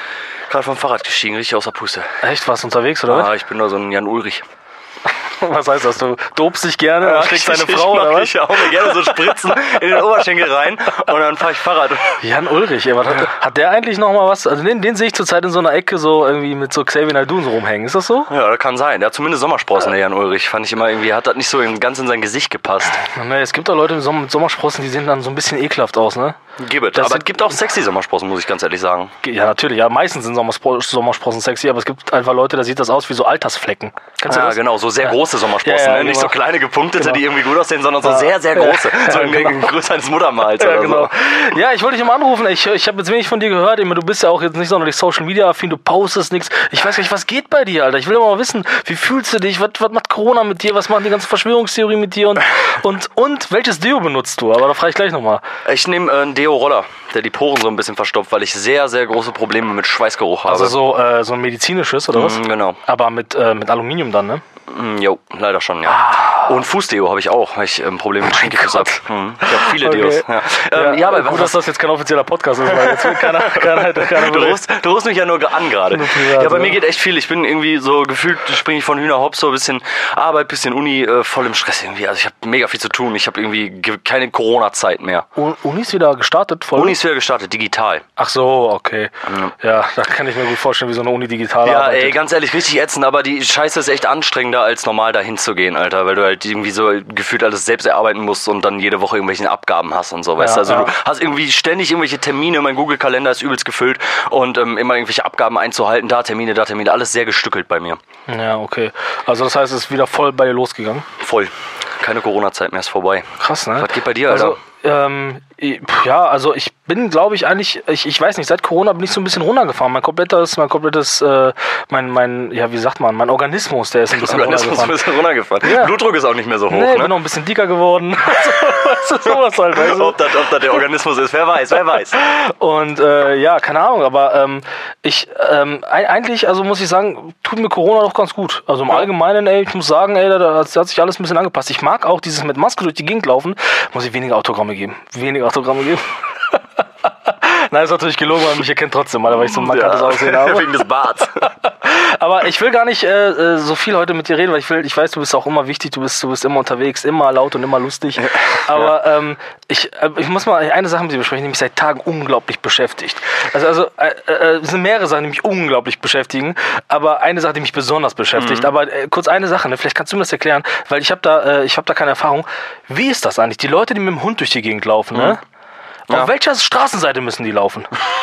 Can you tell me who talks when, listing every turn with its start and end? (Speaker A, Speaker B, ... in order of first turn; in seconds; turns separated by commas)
Speaker A: 0.5-2.1, Speaker B: 2.2-3.3, Speaker A: 3.1-4.4, Speaker B: 5.4-9.7, Speaker A: 7.0-12.2, Speaker B: 12.2-18.3, Speaker A: 18.3-23.0, Speaker B: 23.0-26.4, Speaker A: 26.6-29.1, Speaker B: 26.9-27.3, Speaker B: 29.2-36.4, Speaker A: 34.3-41.1, Speaker B: 37.0-37.2, Speaker B: 38.0-39.7, Speaker B: 40.6-55.4, Speaker A: 55.6-60.8, Speaker B: 60.5-64.4, Speaker A: 62.1-62.8, Speaker A: 64.7-71.6, Speaker B: 65.9-66.6, Speaker B: 68.3-74.6, Speaker A: 72.7-85.3, Speaker B: 75.9-76.8, Speaker B: 85.3-87.0, Speaker A: 86.8-88.0, Speaker B: 88.2-92.2, Speaker A: 89.3-89.5, Speaker A: 91.6-108.0, Speaker B: 100.4-100.9, Speaker B: 108.3-111.0, Speaker A: 111.2-113.2, Speaker B: 113.4-125.0, Speaker A: 113.8-114.6, Speaker A: 124.1-127.1, Speaker B: 125.6-126.0, Speaker B: 126.7-130.2, Speaker A: 129.7-132.2, Speaker B: 132.1-146.6, Speaker B: 147.2-150.7, Speaker A: 149.3-151.4, Speaker B: 151.3-175.4, Speaker A: 158.6-158.9, Speaker A: 168.3-168.7, Speaker B: 176.1-177.9